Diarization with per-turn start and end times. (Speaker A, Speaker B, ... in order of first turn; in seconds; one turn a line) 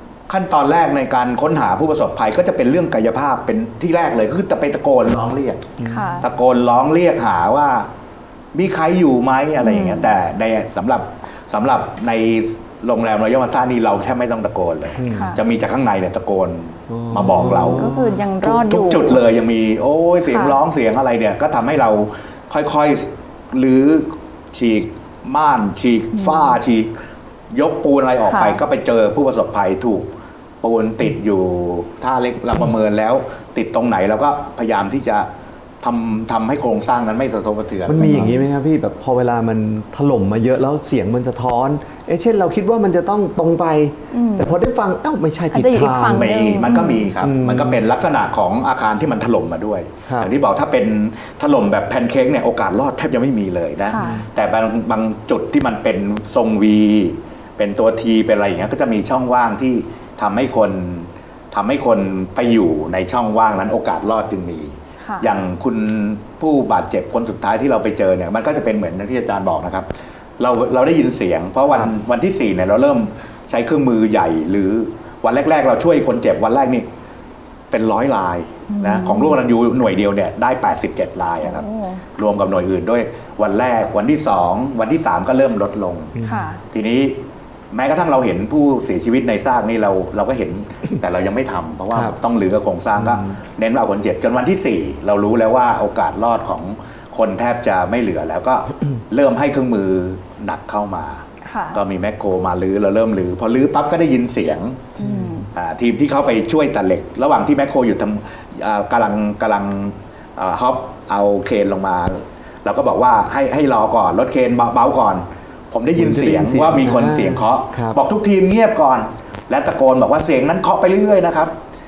Speaker A: 0.3-7.9
Speaker B: 5.8-6.2
Speaker C: 5.8-6.3
Speaker A: 8.5-17.9
Speaker C: 9.6-10.1
Speaker B: 15.0-15.4
Speaker C: 15.1-15.4
Speaker B: 16.9-18.2
Speaker C: 17.2-19.2
Speaker A: 18.4-26.9
Speaker C: 20.3-20.6
Speaker C: 26.2-26.6
Speaker A: 27.5-30.1
Speaker C: 28.2-28.6
Speaker A: 30.6-35.3
Speaker A: 35.8-38.3
Speaker B: 37.9-46.3
Speaker C: 38.0-38.4
Speaker C: 44.1-44.5
Speaker C: 45.5-47.1
Speaker A: 46.1-76.9
Speaker B: 47.2-47.8
Speaker C: 53.9-54.2
Speaker C: 65.0-65.3
Speaker A: 77.7-86.2
Speaker C: 78.7-79.4
Speaker C: 81.4-82.0
Speaker B: 86.2-86.5
Speaker C: 86.3-86.6
Speaker A: 86.7-87.2
Speaker A: 87.7-104.9
Speaker B: 93.0-93.3
Speaker C: 101.4-101.8
Speaker C: 105.0-105.5
Speaker B: 105.0-105.3
Speaker A: 105.5-121.5
Speaker B: 116.0-118.0